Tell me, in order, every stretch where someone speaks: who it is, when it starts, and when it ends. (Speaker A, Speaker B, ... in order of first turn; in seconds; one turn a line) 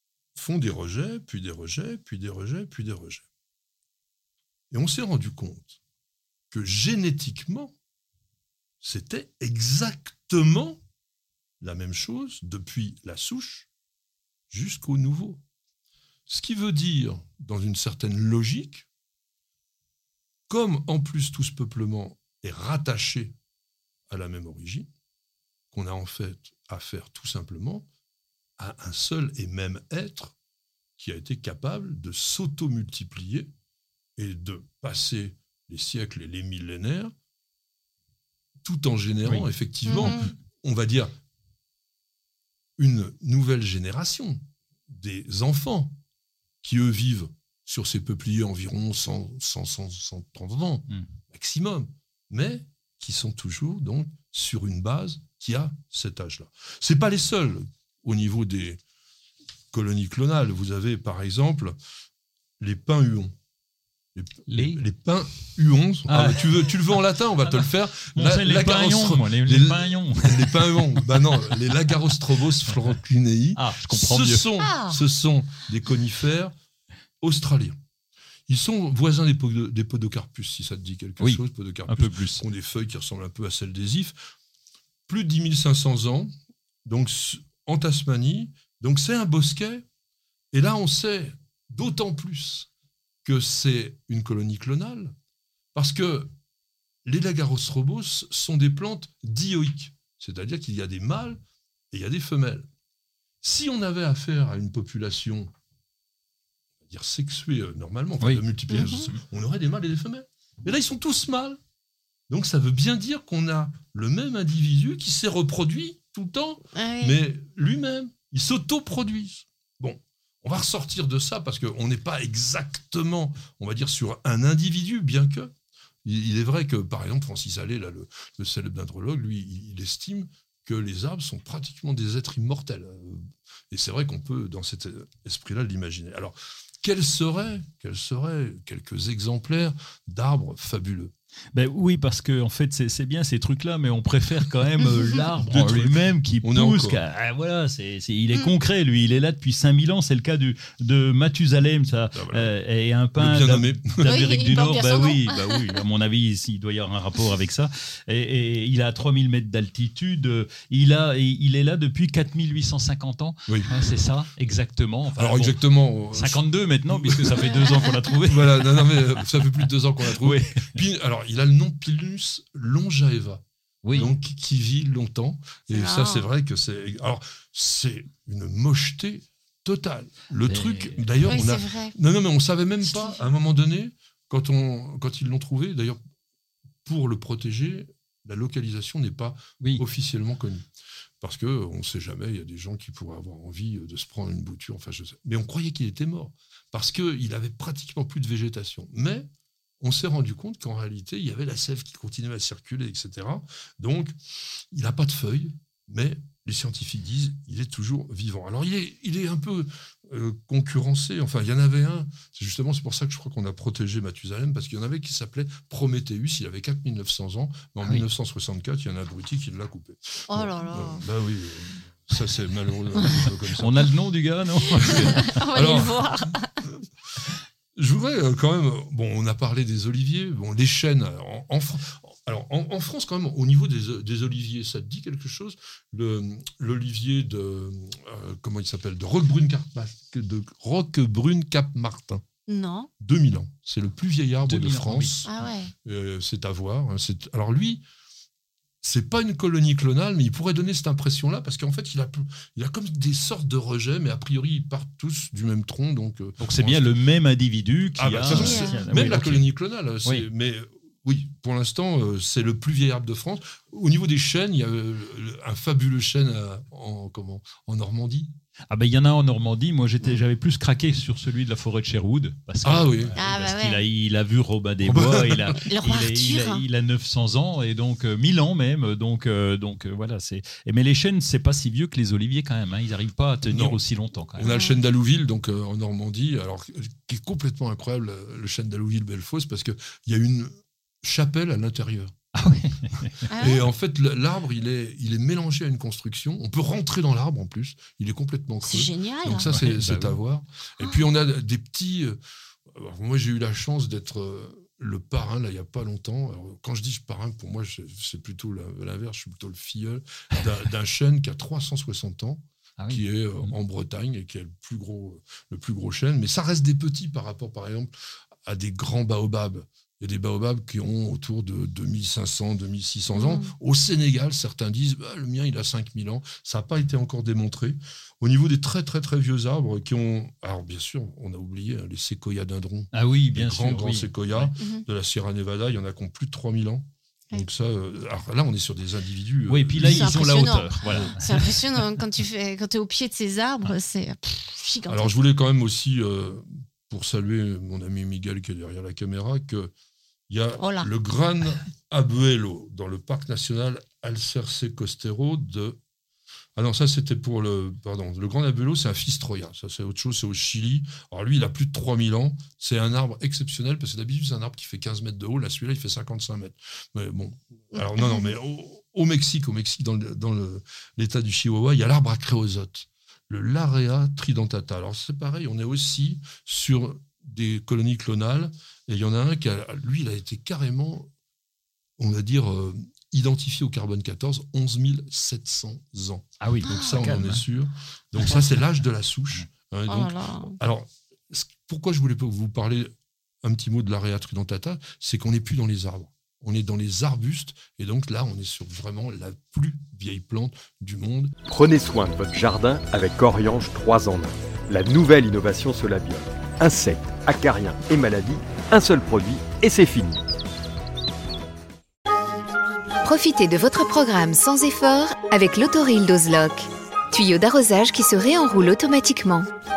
Speaker A: 0.3-3.3
Speaker A: 4.7-5.8
Speaker A: 6.5-7.8
Speaker A: 8.8-10.8
Speaker A: 11.6-13.7
Speaker A: 14.5-15.4
Speaker A: 16.3-18.9
Speaker A: 20.5-23.4
Speaker A: 24.1-24.9
Speaker A: 25.7-27.9
Speaker A: 28.6-30.4
Speaker A: 31.0-33.5
Speaker A: 34.2-37.1
Speaker A: 38.6-41.1
Speaker B: 39.2-40.2
Speaker C: 39.9-40.3
Speaker A: 42.8-46.0
Speaker A: 46.6-58.8
Speaker A: 59.7-61.8
Speaker A: 62.6-63.3
Speaker A: 64.2-76.5
Speaker B: 64.5-64.8
Speaker B: 66.1-71.5
Speaker B: 73.6-74.5
Speaker C: 74.6-75.0
Speaker A: 77.2-77.8
Speaker A: 78.5-84.3
Speaker B: 81.2-82.4
Speaker A: 85.1-86.3
Speaker A: 86.8-89.8
Speaker A: 90.5-92.7
Speaker A: 93.2-95.1
Speaker A: 95.8-96.3
Speaker A: 97.1-101.4
Speaker A: 101.9-102.7
Speaker A: 103.4-105.5
Speaker A: 106.8-111.6
Speaker B: 108.2-109.2
Speaker C: 108.7-109.0
Speaker A: 112.3-125.5
Speaker C: 116.8-117.2
Speaker A: 126.0-141.1
Speaker B: 141.5-169.3
Speaker A: 145.4-147.0
Speaker A: 152.1-152.5
Speaker A: 153.2-154.1
Speaker C: 154.0-155.8
Speaker A: 163.5-163.7
Speaker A: 165.2-173.4
Speaker B: 170.1-170.7
Speaker B: 173.8-174.1
Speaker A: 173.9-186.0
Speaker C: 175.7-176.3
Speaker B: 180.4-181.1
Speaker C: 181.2-181.9
Speaker C: 182.8-183.2
Speaker A: 186.8-190.7
Speaker A: 191.2-199.3
Speaker A: 199.8-204.2
Speaker A: 204.7-223.8
Speaker C: 220.3-221.0
Speaker B: 223.5-225.4
Speaker C: 224.7-226.6
Speaker A: 224.8-226.1
Speaker A: 227.8-242.2
Speaker C: 242.5-242.9
Speaker A: 243.0-245.3
Speaker B: 244.4-245.6
Speaker C: 245.3-245.7
Speaker A: 245.8-247.8
Speaker A: 248.8-257.0
Speaker B: 256.4-259.5
Speaker A: 258.0-268.3
Speaker C: 258.3-258.8
Speaker B: 268.7-284.5
Speaker A: 272.6-273.2
Speaker C: 273.1-273.9
Speaker A: 274.8-275.5
Speaker C: 275.6-276.6
Speaker A: 283.5-283.8
Speaker A: 284.4-290.5
Speaker C: 284.4-284.8
Speaker A: 291.0-292.1
Speaker B: 292.4-293.2
Speaker C: 293.3-293.6
Speaker A: 293.4-302.2
Speaker C: 298.6-299.5
Speaker B: 299.5-300.2
Speaker A: 302.7-317.9
Speaker B: 312.8-313.5
Speaker A: 318.4-341.1
Speaker C: 323.1-323.5
Speaker B: 332.9-334.5
Speaker C: 334.6-334.8
Speaker B: 339.5-341.9
Speaker C: 339.8-345.2
Speaker A: 344.9-349.7
Speaker A: 350.3-355.8
Speaker C: 350.6-350.9
Speaker A: 356.6-381.1
Speaker C: 367.8-368.3
Speaker A: 382.0-392.9
Speaker B: 386.4-387.4
Speaker C: 386.7-387.0
Speaker B: 388.2-388.6
Speaker C: 389.9-390.6
Speaker A: 393.4-401.3
Speaker D: 401.5-410.2
Speaker E: 413.0-419.5